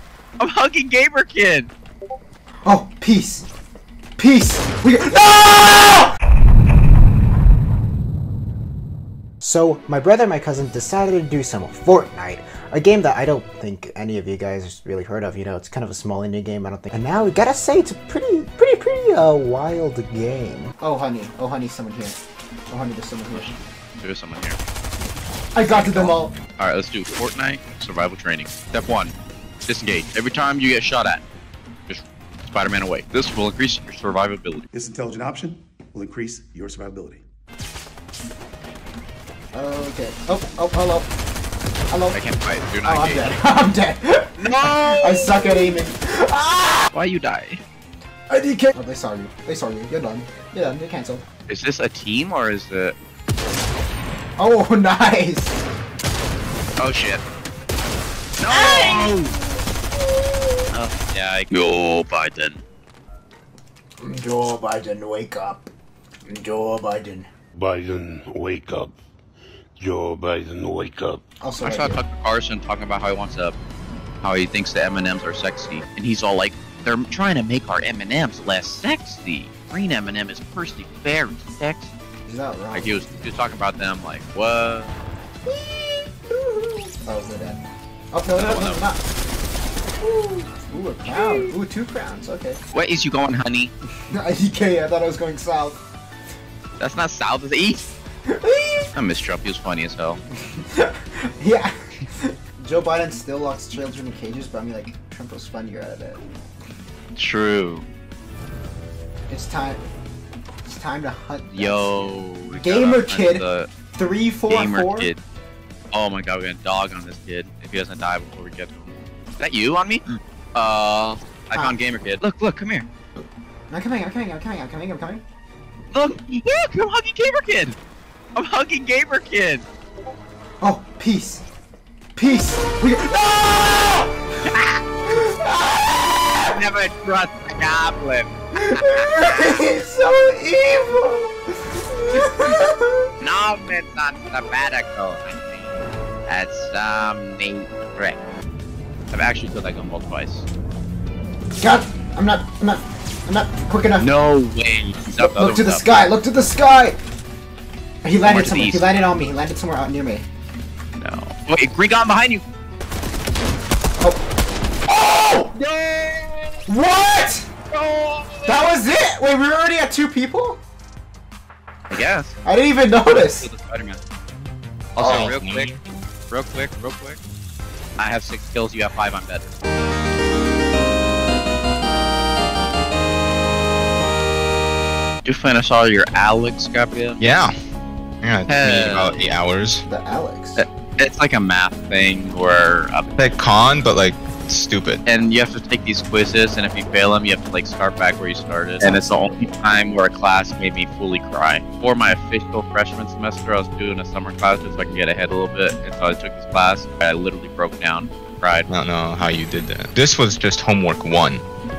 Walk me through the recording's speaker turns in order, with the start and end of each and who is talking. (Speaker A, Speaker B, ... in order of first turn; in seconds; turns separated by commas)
Speaker A: 0.4-1.7, Speaker B: 2.6-3.5, Speaker B: 4.2-6.1, Speaker B: 9.4-22.2, Speaker B: 22.7-23.5, Speaker A: 23.3-24.6, Speaker B: 25.5-26.3, Speaker A: 25.7-29.1, Speaker A: 29.7-31.2, Speaker A: 31.9-34.7, Speaker C: 34.7-37.2, Speaker B: 39.5-41.1, Speaker B: 41.9-42.2, Speaker A: 42.1-43.4, Speaker B: 42.8-46.9, Speaker A: 44.4-45.5, Speaker A: 46.9-47.6, Speaker B: 48.3-51.2, Speaker A: 51.5-53.0, Speaker B: 54.4-55.6, Speaker A: 56.8-57.2, Speaker A: 58.4-59.2, Speaker B: 58.5-59.4, Speaker A: 60.7-62.6, Speaker B: 64.0-65.7, Speaker B: 66.3-67.3, Speaker D: 67.5-69.0, Speaker D: 69.8-71.2, Speaker B: 71.4-72.0, Speaker A: 71.6-73.6, Speaker A: 74.2-81.9, Speaker B: 82.3-83.0, Speaker A: 82.7-84.9, Speaker B: 85.5-89.0, Speaker A: 88.4-88.8, Speaker B: 90.0-92.6, Speaker A: 91.1-91.5, Speaker A: 92.7-93.7, Speaker B: 94.1-95.8, Speaker A: 96.8-97.9, Speaker B: 98.3-98.9, Speaker A: 98.9-100.2, Speaker B: 100.5-106.2, Speaker A: 107.2-107.8, Speaker B: 109.3-109.8, Speaker B: 110.7-113.4, Speaker A: 111.5-113.7, Speaker B: 114.0-115.1, Speaker A: 114.5-115.2, Speaker A: 115.9-122.9, Speaker B: 123.7-125.2, Speaker A: 125.9-127.8, Speaker A: 128.3-129.7, Speaker B: 130.6-131.4, Speaker B: 132.2-134.2, Speaker A: 134.4-134.8, Speaker B: 135.1-136.6, Speaker A: 136.5-139.4, Speaker B: 138.6-143.1, Speaker A: 143.2-145.7, Speaker A: 146.3-148.2, Speaker A: 149.1-150.5, Speaker B: 151.6-154.1, Speaker A: 154.0-155.9, Speaker B: 155.2-157.0, Speaker B: 158.0-160.3, Speaker A: 158.3-158.9, Speaker A: 161.0-162.4, Speaker B: 164.9-165.5, Speaker A: 165.6-166.6, Speaker B: 166.7-167.5, Speaker A: 167.7-168.7, Speaker B: 168.5-170.6, Speaker A: 171.9-172.4, Speaker B: 172.4-173.5, Speaker A: 173.1-174.0, Speaker A: 175.0-175.7, Speaker B: 175.0-175.3, Speaker E: 175.0-175.8, Speaker A: 176.3-177.2, Speaker A: 178.0-179.5, Speaker A: 185.2-187.2, Speaker E: 187.2-187.5, Speaker E: 188.2-189.8, Speaker A: 188.5-189.3, Speaker B: 189.9-190.6, Speaker A: 190.6-193.1, Speaker E: 193.2-195.0, Speaker A: 195.1-208.7, Speaker B: 198.8-199.4, Speaker E: 208.7-211.4